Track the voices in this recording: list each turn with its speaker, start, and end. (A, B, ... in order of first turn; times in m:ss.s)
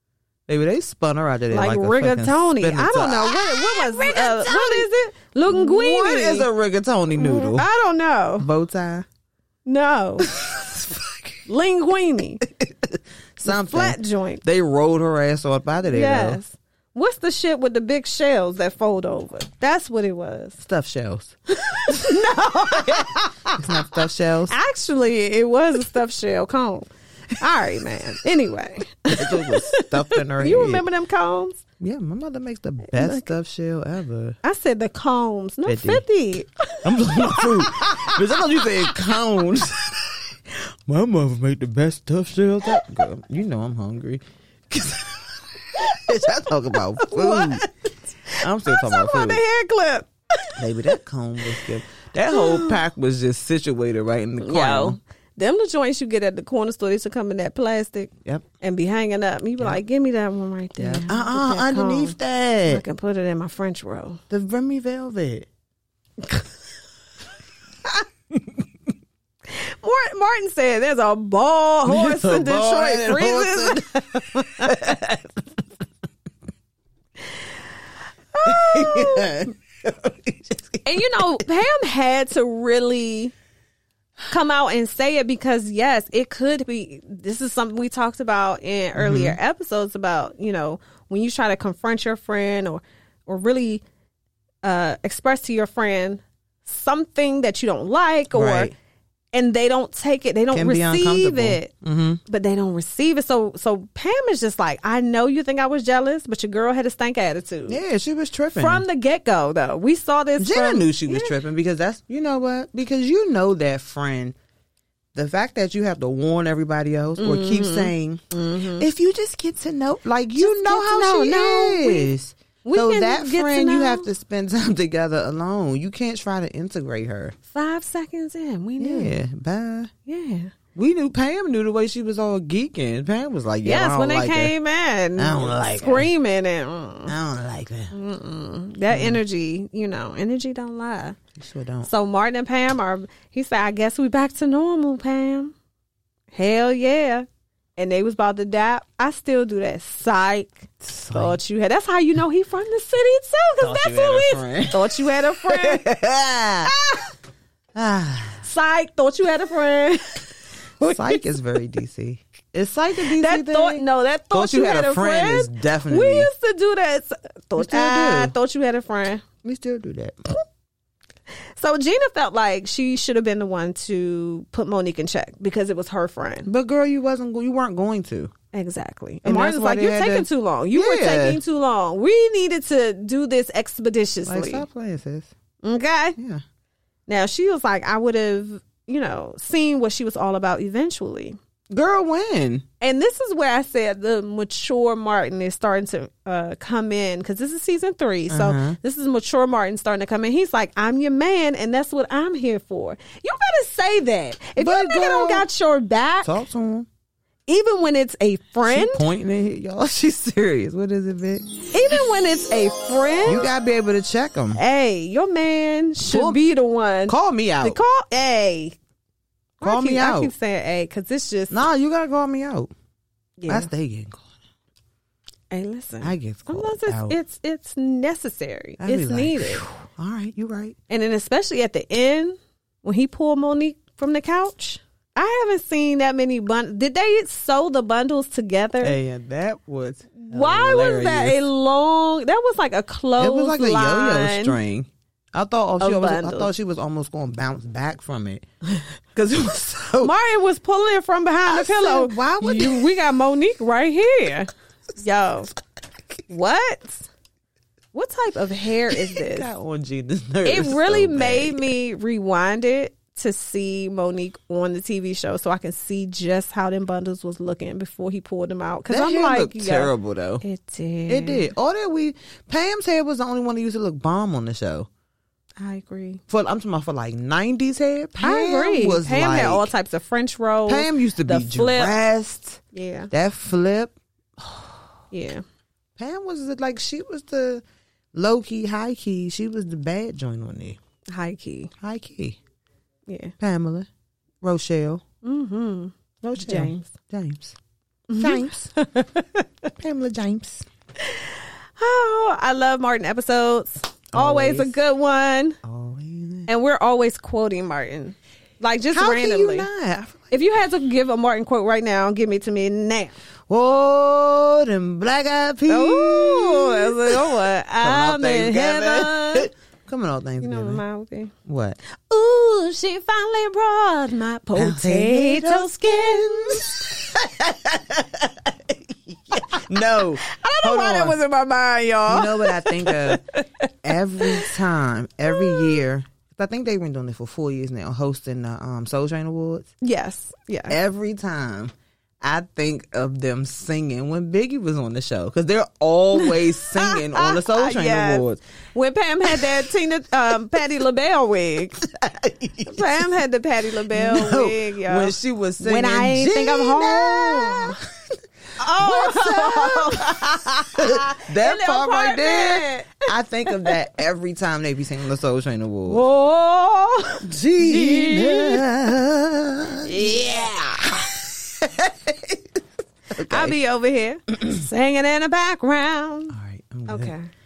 0:00.5-0:04.9 A
0:01.5-0:06.5 B
0:05.5-0:07.6 A
0:07.2-0:08.5 B
0:08.4-0:09.0 A
0:09.6-0:10.3 B
0:10.3-0:11.4 A
0:11.4-0:12.4 B
0:12.5-0:16.4 A
0:13.4-0:14.4 B
0:15.9-0:20.6 B
0:20.6-0:24.6 A
0:21.6-0:23.8 B
0:24.5-0:31.6 B
0:29.1-0:30.8 A
0:31.8-0:34.4 A
0:32.9-0:33.3 B
0:34.4-0:38.6 B
0:35.6-0:36.0 A
0:36.8-0:47.6 A
0:47.0-0:47.7 B
0:48.3-0:51.0 B
0:48.4-0:49.4 A
0:50.6-0:55.0 A
0:52.3-0:52.8 B
0:54.4-1:04.2 B
1:00.8-1:02.8 A
1:04.3-1:05.5 A
1:09.5-1:15.0 B
1:11.8-1:15.2 A
1:18.3-1:19.4 B
1:18.4-1:21.2 A
1:20.8-1:23.3 B
1:24.3-1:33.8 B
1:29.0-1:29.4 A
1:34.6-1:38.7 B
1:38.3-1:38.7 A
1:39.3-1:41.7 B
1:40.5-1:42.2 A
1:42.2-1:47.8 B
1:47.7-1:48.8 A
1:48.6-1:51.3 B
1:50.4-1:54.3 A
1:55.1-1:58.2 A
1:57.2-1:58.8 B
1:58.8-2:07.3 A
2:00.4-2:02.1 B
2:02.6-2:04.1 B
2:07.5-2:09.2 B
2:08.8-2:09.9 A
2:10.0-2:10.5 B
2:10.7-2:14.5 A
2:13.6-2:17.1 B
2:15.2-2:16.1 A
2:17.1-2:17.9 A
2:17.9-2:21.2 B
2:18.9-2:19.2 A
2:21.4-2:21.9 A
2:21.8-2:25.5 B
2:26.3-2:27.2 B
2:27.8-2:35.9 B
2:30.8-2:31.4 A
2:33.6-2:36.7 A
2:36.6-2:37.0 B
2:37.7-2:38.4 A
2:38.4-2:40.3 B
2:40.8-2:41.2 B
2:40.8-2:46.3 A
2:43.2-2:49.2 B
2:47.6-2:48.3 A
2:49.4-2:50.2 A
2:51.6-2:56.5 B
2:56.4-2:58.3 A
2:58.5-3:04.6 B
2:59.2-3:01.4 A
3:04.2-3:05.3 A
3:05.6-3:06.2 B
3:06.2-3:06.4 A
3:07.1-3:11.4 B
3:11.7-3:12.6 A
3:12.8-3:26.3 B
3:18.3-3:18.8 A
3:24.6-3:25.5 A
3:26.2-3:26.9 A
3:27.5-3:29.0 B
3:28.7-3:31.6 A
3:31.7-3:33.5 B
3:33.2-3:34.6 A
3:34.5-3:38.8 B
3:36.0-3:36.4 A
3:37.1-3:37.8 A
3:39.6-3:41.6 B
3:39.6-3:40.3 A
3:41.5-3:42.7 A
3:43.4-3:43.7 B
3:43.5-3:44.2 A
3:45.5-3:49.6 B
3:46.0-3:47.2 A
3:48.8-3:50.8 A
3:50.9-3:59.0 B
3:58.8-4:01.4 A
4:00.2-4:04.6 B
4:03.2-4:08.4 A
4:05.8-4:06.5 B
4:09.1-4:10.1 A
4:10.0-4:15.5 B
4:11.5-4:12.8 A
4:16.3-4:17.1 B
4:17.9-4:19.5 B
4:18.9-4:21.7 A
4:20.4-4:31.5 B
4:28.9-4:30.4 A
4:31.1-4:34.9 A
4:35.6-4:36.2 B
4:36.3-4:39.7 A
4:38.2-4:41.9 B
4:40.7-4:44.7 A
4:42.7-4:43.1 B
4:45.1-4:45.4 B
4:46.0-4:47.6 A
4:48.1-4:50.8 A
4:51.1-4:51.7 B
4:51.8-4:52.4 A
4:53.1-4:53.3 B
4:53.4-4:53.9 A
4:54.4-4:55.0 A
4:55.2-4:56.9 B
4:56.2-4:57.6 A
4:58.1-4:59.4 B
4:58.2-4:58.7 A
4:59.8-5:00.6 A
5:01.0-5:05.6 B
5:04.1-5:04.7 A
5:05.6-5:06.5 A
5:06.5-5:09.7 B
5:08.9-5:10.4 A
5:10.3-5:13.2 B
5:13.5-5:20.8 A
5:15.7-5:19.5 B
5:20.4-5:21.3 B
5:21.4-5:21.8 A
5:22.1-5:26.7 B
5:24.6-5:31.2 A
5:30.2-5:33.4 B
5:32.1-5:33.2 A
5:33.8-5:39.7 A
5:34.2-5:34.5 B
5:35.3-5:35.8 B
5:39.8-5:40.8 B
5:40.7-5:48.4 A
5:46.2-5:51.8 B
5:49.2-5:49.6 A
5:51.7-5:53.0 A
5:52.6-5:57.8 B
5:53.9-5:57.9 A
5:58.6-6:03.7 B
5:58.8-6:06.0 A
6:05.9-6:08.6 B
6:07.2-6:10.2 A
6:09.8-6:11.0 B
6:10.8-6:12.6 A
6:13.1-6:13.6 A
6:13.2-6:16.4 B
6:16.3-6:17.1 A
6:16.9-6:17.3 B